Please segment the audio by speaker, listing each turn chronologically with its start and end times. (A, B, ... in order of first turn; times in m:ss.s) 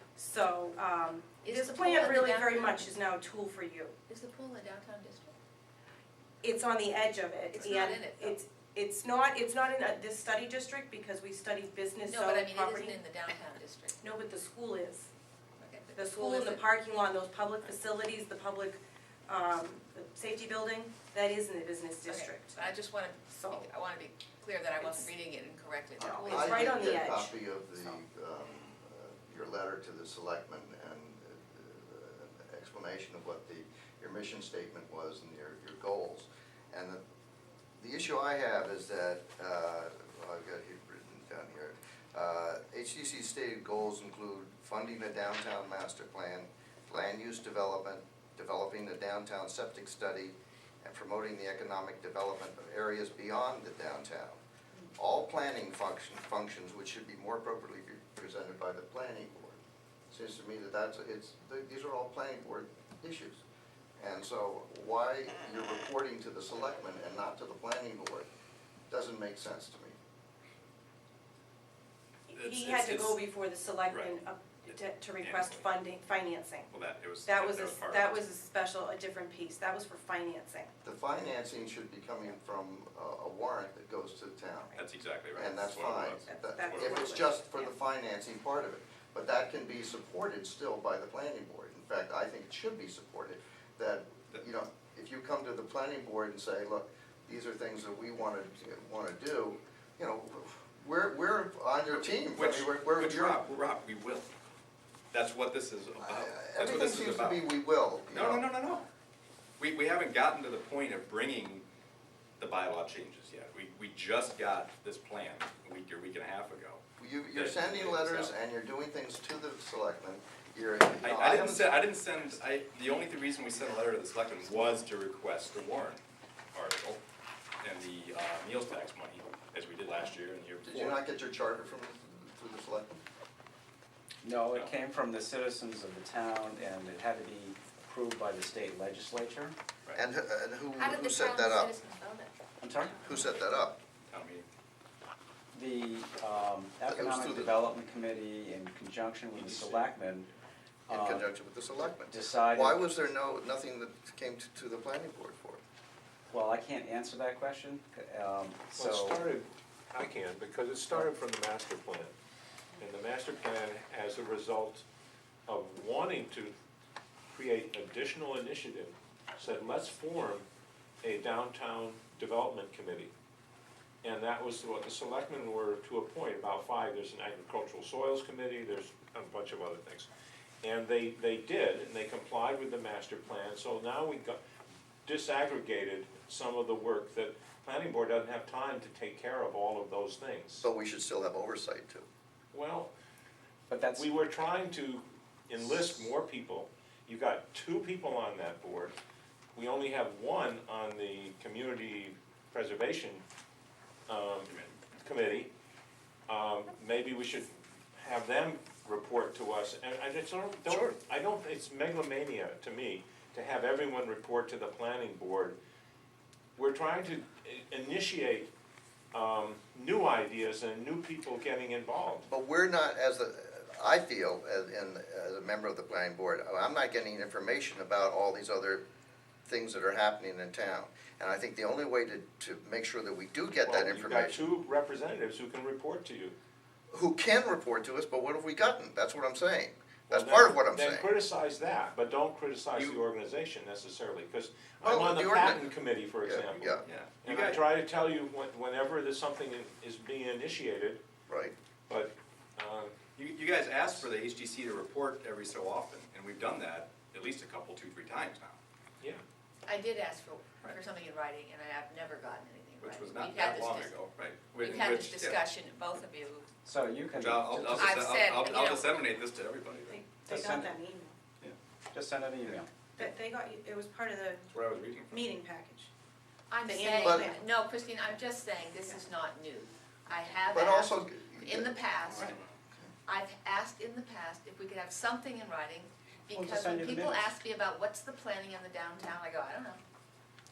0:00.2-0:03.9 A
0:01.4-0:02.9 B
0:04.1-0:05.3 B
0:06.4-0:13.0 A
0:07.5-0:08.4 B
0:12.0-0:14.0 B
0:14.0-0:15.1 A
0:15.6-0:16.6 B
0:16.0-0:22.7 A
0:22.1-0:26.8 B
0:23.3-0:23.7 A
0:24.8-0:25.1 A
0:26.0-0:27.9 A
0:26.3-0:37.0 C
0:37.8-0:54.4 C
0:55.0-1:03.4 C
1:04.0-1:08.3 C
1:08.9-1:10.0 C
1:12.3-1:16.7 A
1:12.3-1:13.2 D
1:13.9-1:15.7 D
1:16.7-1:18.3 D
1:17.2-1:20.7 A
1:20.8-1:24.8 C
1:24.8-1:27.2 D
1:25.3-1:43.4 C
1:26.3-1:27.7 A
1:41.9-1:44.3 D
1:45.1-1:47.5 D
1:46.0-1:48.5 C
1:48.1-1:48.9 D
1:49.6-1:51.7 D
1:52.4-1:56.8 D
1:57.0-2:01.9 C
1:57.3-1:58.3 D
2:01.0-2:06.0 D
2:06.5-2:07.0 D
2:07.6-2:11.0 D
2:10.6-2:13.0 C
2:14.2-2:19.6 E
2:20.0-2:21.8 C
2:20.8-2:22.4 B
2:22.6-2:23.1 E
2:23.0-2:23.8 C
2:24.1-2:24.4 D
2:25.5-2:30.3 E
2:26.9-2:27.6 C
2:29.4-2:29.9 D
2:30.9-2:31.2 E
2:30.9-2:35.6 C
2:32.0-2:32.8 E
2:36.3-2:39.3 E
2:38.8-2:42.1 F
2:42.8-2:44.8 F
2:45.5-2:46.5 F
2:47.3-2:50.4 F
2:51.0-2:53.1 F
2:54.0-3:00.1 F
3:00.6-3:04.4 F
3:05.0-3:10.7 F
3:10.6-3:12.1 C
3:12.5-3:12.9 F
3:13.7-3:14.1 E
3:14.0-3:19.0 F
3:19.6-3:23.2 F
3:24.1-3:25.5 F
3:24.5-3:24.8 D
3:26.3-3:35.6 F
3:30.7-3:31.0 C
3:36.6-3:38.5 F
3:39.1-3:42.3 F
3:42.3-3:48.8 C
3:49.5-3:54.6 C
3:53.6-3:56.4 F
3:56.9-4:01.1 C
4:00.1-4:11.0 F
4:04.8-4:05.7 C
4:06.2-4:06.8 C
4:06.8-4:07.6 D
4:11.3-4:11.6 C
4:11.9-4:12.9 F
4:13.2-4:18.6 D
4:19.7-4:24.0 B
4:22.8-4:25.4 D
4:24.6-4:26.5 B
4:26.6-4:28.0 E
4:27.1-4:30.0 D
4:27.6-4:29.1 B
4:29.9-4:31.2 A
4:30.3-4:30.8 E
4:31.9-4:32.9 E
4:33.0-4:34.5 A
4:34.5-4:35.4 D
4:35.1-4:35.9 A
4:36.5-4:42.4 B
4:36.6-4:37.4 A
4:37.0-4:37.3 C
4:40.5-4:42.3 C
4:42.2-4:42.5 D
4:43.1-4:49.8 B
4:46.3-4:47.4 E